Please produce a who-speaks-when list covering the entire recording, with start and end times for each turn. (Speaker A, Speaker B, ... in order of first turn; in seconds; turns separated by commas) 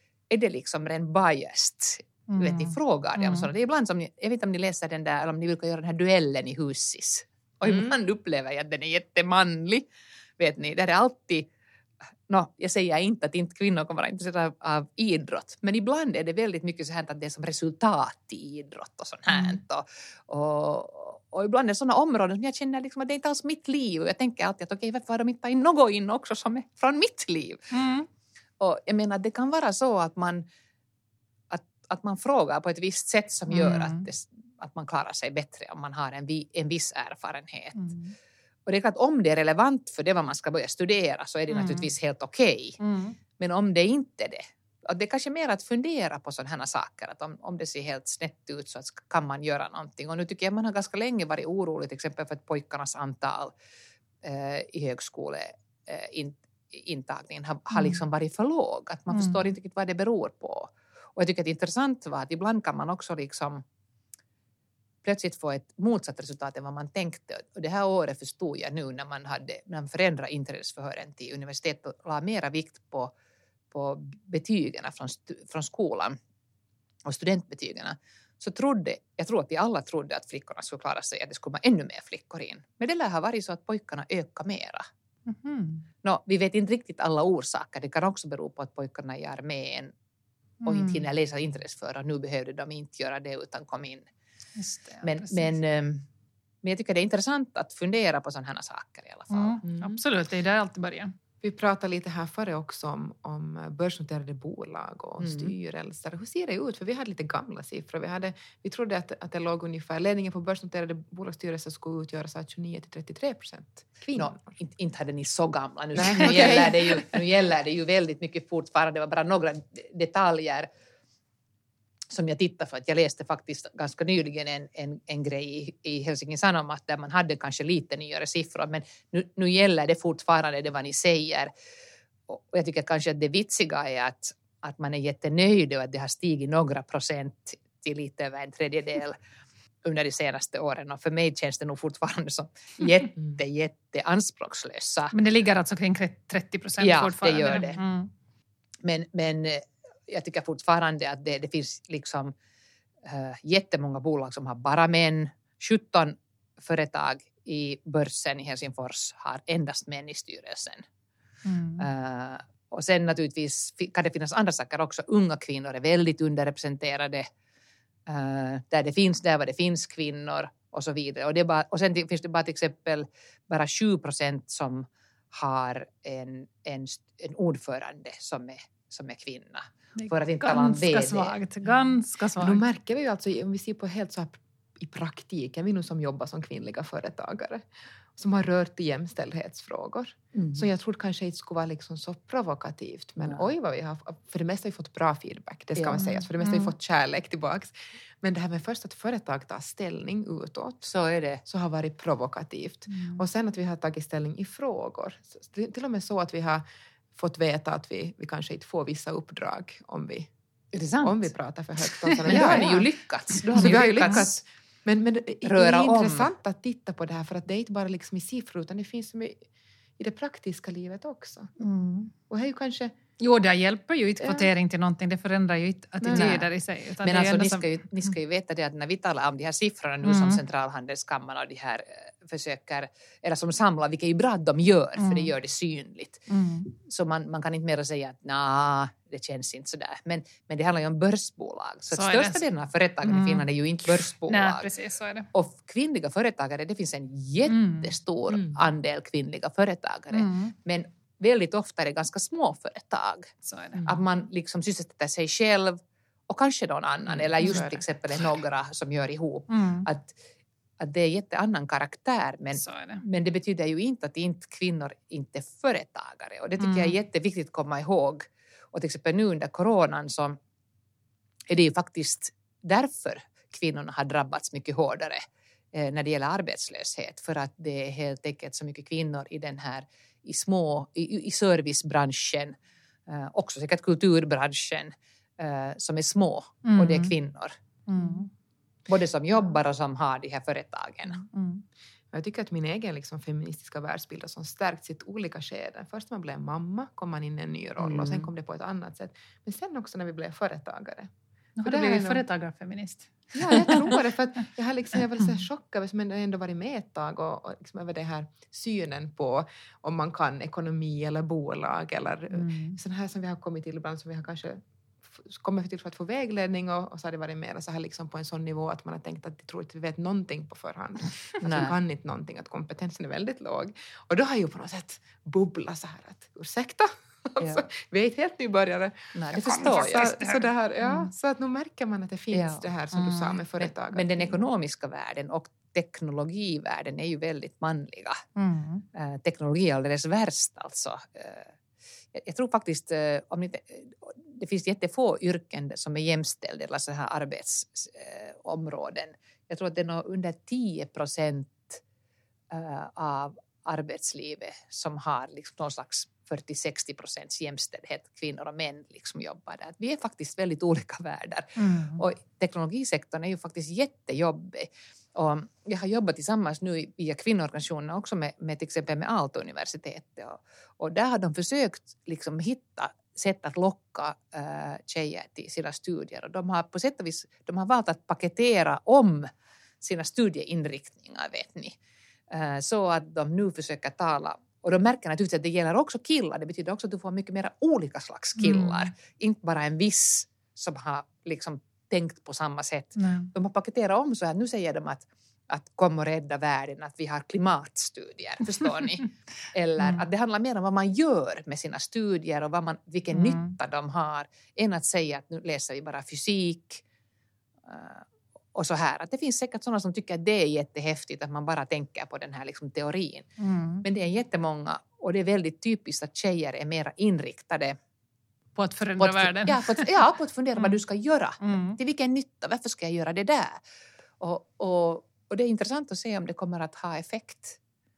Speaker A: 0.3-9.9, Speaker B: 2.3-3.5, Speaker A: 10.4-11.5, Speaker A: 12.3-27.7, Speaker B: 19.3-19.6, Speaker B: 27.7-28.1, Speaker A: 28.6-30.4, Speaker A: 31.5-37.9, Speaker B: 33.5-34.1, Speaker B: 37.7-38.1, Speaker A: 38.6-42.8, Speaker B: 41.5-41.9, Speaker B: 42.8-43.2, Speaker A: 43.4-53.5, Speaker A: 54.2-63.6, Speaker A: 65.0-73.1, Speaker A: 73.7-76.2, Speaker A: 77.0-84.8, Speaker B: 85.3-85.8, Speaker A: 86.0-89.9, Speaker B: 90.6-91.0, Speaker A: 90.6-94.0, Speaker B: 94.5-95.6, Speaker A: 95.0-96.0, Speaker A: 96.6-99.6, Speaker B: 99.3-101.1, Speaker C: 99.6-100.0, Speaker C: 101.4-114.5, Speaker A: 105.2-105.5, Speaker A: 114.1-120.7, Speaker C: 115.9-116.9, Speaker A: 122.1-131.5, Speaker A: 132.3-139.2, Speaker A: 139.8-145.1, Speaker B: 145.1-148.1, Speaker A: 146.8-147.8, Speaker A: 148.8-152.3, Speaker A: 153.0-160.8, Speaker B: 161.4-161.9, Speaker A: 161.8-167.3, Speaker A: 168.1-181.4, Speaker B: 180.0-182.6, Speaker C: 182.4-200.9, Speaker A: 190.3-190.7, Speaker A: 195.8-196.0, Speaker B: 195.9-196.7, Speaker A: 200.8-201.4, Speaker C: 201.4-210.3, Speaker B: 202.9-203.2, Speaker A: 210.7-211.3, Speaker C: 211.0-212.9, Speaker B: 212.0-212.7, Speaker A: 212.2-214.4, Speaker C: 213.5-219.4, Speaker B: 213.6-214.2, Speaker A: 215.4-216.3, Speaker C: 220.0-221.5, Speaker B: 221.6-222.1, Speaker C: 222.3-222.9, Speaker B: 223.2-228.1, Speaker C: 224.2-224.5, Speaker C: 226.0-226.4, Speaker A: 226.1-226.5, Speaker A: 227.0-244.7, Speaker B: 230.0-230.4, Speaker B: 235.0-235.3, Speaker B: 236.3-236.7, Speaker B: 241.9-242.4, Speaker B: 243.0-243.5, Speaker B: 244.0-245.3, Speaker A: 245.3-253.3, Speaker B: 247.5-247.9, Speaker C: 248.3-248.6, Speaker B: 250.1-250.5, Speaker B: 253.4-253.8, Speaker A: 253.8-260.1, Speaker B: 257.4-257.7, Speaker C: 257.4-257.8, Speaker B: 259.5-259.9, Speaker A: 260.8-270.4, Speaker B: 262.6-263.0, Speaker B: 266.6-266.9, Speaker A: 271.5-275.2, Speaker A: 275.7-287.6, Speaker B: 286.6-287.1, Speaker B: 287.9-288.3, Speaker A: 288.9-291.2, Speaker B: 291.2-291.6, Speaker C: 292.1-301.1, Speaker A: 297.8-298.3, Speaker B: 301.6-304.0, Speaker C: 301.6-302.2, Speaker C: 303.4-334.4, Speaker B: 312.3-312.8, Speaker A: 321.4-321.7, Speaker A: 327.4-327.6, Speaker A: 329.1-330.1, Speaker B: 329.5-330.5, Speaker A: 332.3-338.2, Speaker B: 338.4-338.8, Speaker A: 338.9-341.5, Speaker A: 342.1-351.8, Speaker A: 352.5-379.3, Speaker B: 361.6-362.0, Speaker A: 379.8-381.8, Speaker A: 382.3-406.8, Speaker B: 388.4-388.9, Speaker B: 392.9-393.3, Speaker B: 399.8-400.0, Speaker B: 403.1-403.5, Speaker A: 407.7-413.3, Speaker B: 413.4-413.8, Speaker A: 413.8-417.8, Speaker B: 418.6-420.0, Speaker A: 419.0-423.6, Speaker B: 421.4-421.8, Speaker A: 424.2-427.6